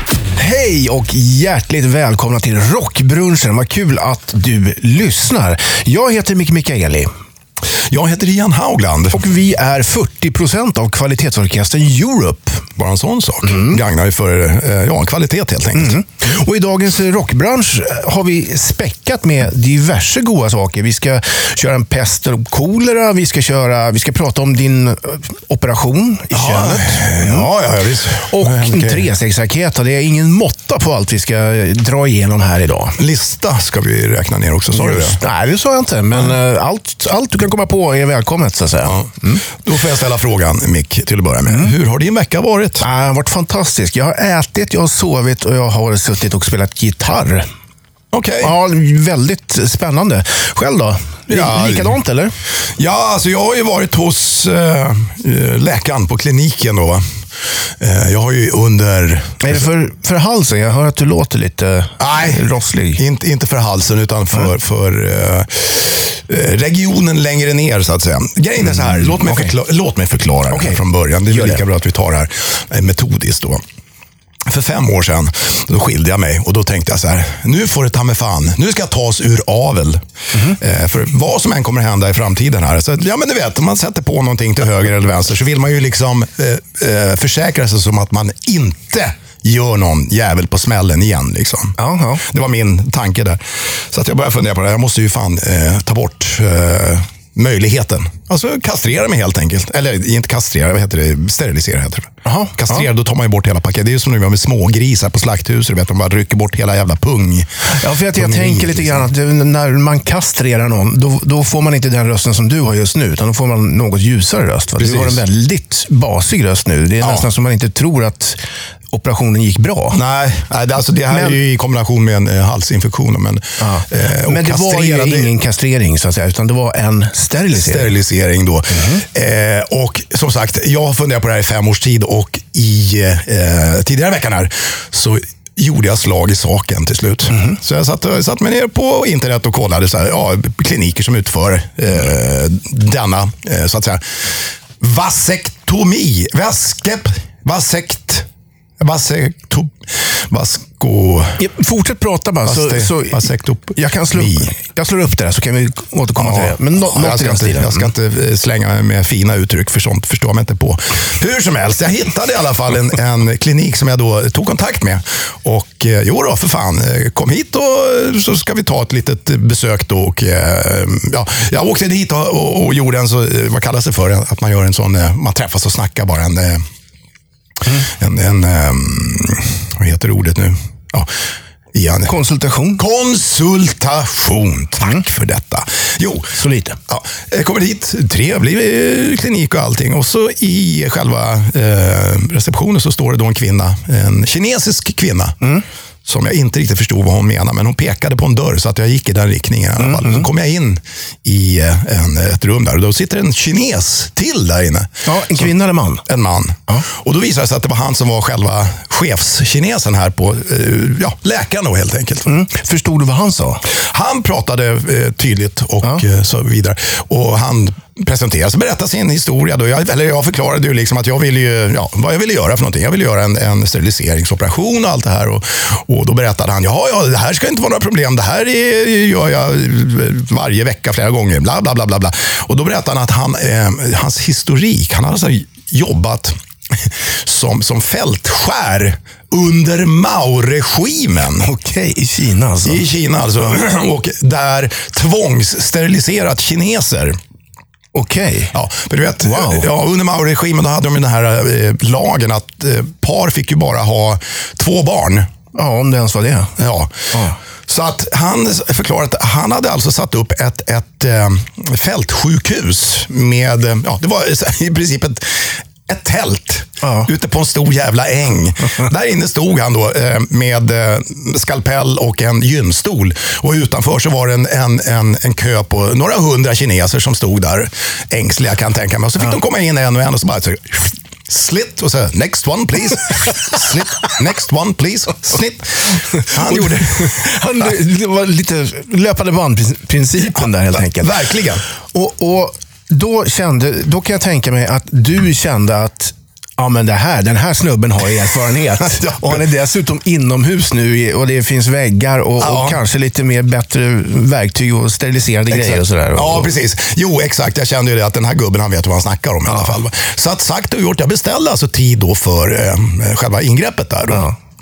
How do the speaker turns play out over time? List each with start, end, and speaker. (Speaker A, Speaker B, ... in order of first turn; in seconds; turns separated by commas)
Speaker A: 0.3-7.1, Speaker B: 7.9-9.3, Speaker A: 9.1-12.7, Speaker B: 12.8-16.0, Speaker A: 13.4-13.8, Speaker A: 15.8-27.5, Speaker B: 26.3-29.1, Speaker A: 28.1-33.0, Speaker B: 33.0-35.2, Speaker A: 34.7-39.4, Speaker B: 38.8-42.8, Speaker A: 41.5-41.7, Speaker A: 42.8-47.5, Speaker B: 48.1-48.5, Speaker A: 48.4-52.3, Speaker B: 51.3-52.0, Speaker B: 52.8-59.6, Speaker A: 59.4-63.0, Speaker B: 62.0-62.4, Speaker B: 63.0-73.6, Speaker A: 68.7-69.5, Speaker A: 70.5-71.6, Speaker B: 74.5-80.0, Speaker B: 80.6-109.1, Speaker A: 91.8-92.2, Speaker A: 102.2-102.8, Speaker A: 107.6-118.4, Speaker B: 114.8-115.2, Speaker B: 117.0-117.3, Speaker A: 118.9-120.0, Speaker B: 119.9-125.3, Speaker A: 121.1-121.4, Speaker A: 123.6-127.9, Speaker B: 127.5-148.2, Speaker A: 128.7-129.0, Speaker B: 148.8-151.4, Speaker A: 151.4-157.9, Speaker B: 152.4-154.5, Speaker B: 156.2-176.7, Speaker B: 177.8-181.1, Speaker B: 181.7-182.2, Speaker A: 182.1-182.8, Speaker B: 182.8-186.4, Speaker A: 186.3-186.8, Speaker B: 186.9-195.4, Speaker B: 196.0-205.5, Speaker A: 199.8-200.3, Speaker A: 205.0-206.0, Speaker B: 206.0-212.3, Speaker A: 212.2-213.6, Speaker B: 213.7-241.5, Speaker A: 241.4-242.8, Speaker B: 242.6-247.2, Speaker A: 247.9-248.5, Speaker B: 248.5-255.3, Speaker A: 249.2-249.7, Speaker A: 255.5-256.5, Speaker B: 256.6-287.3, Speaker A: 257.1-257.4, Speaker A: 266.8-267.1, Speaker A: 286.2-291.2, Speaker B: 290.3-291.6, Speaker A: 291.7-306.5, Speaker B: 299.0-299.4, Speaker B: 302.4-302.8, Speaker B: 305.5-314.3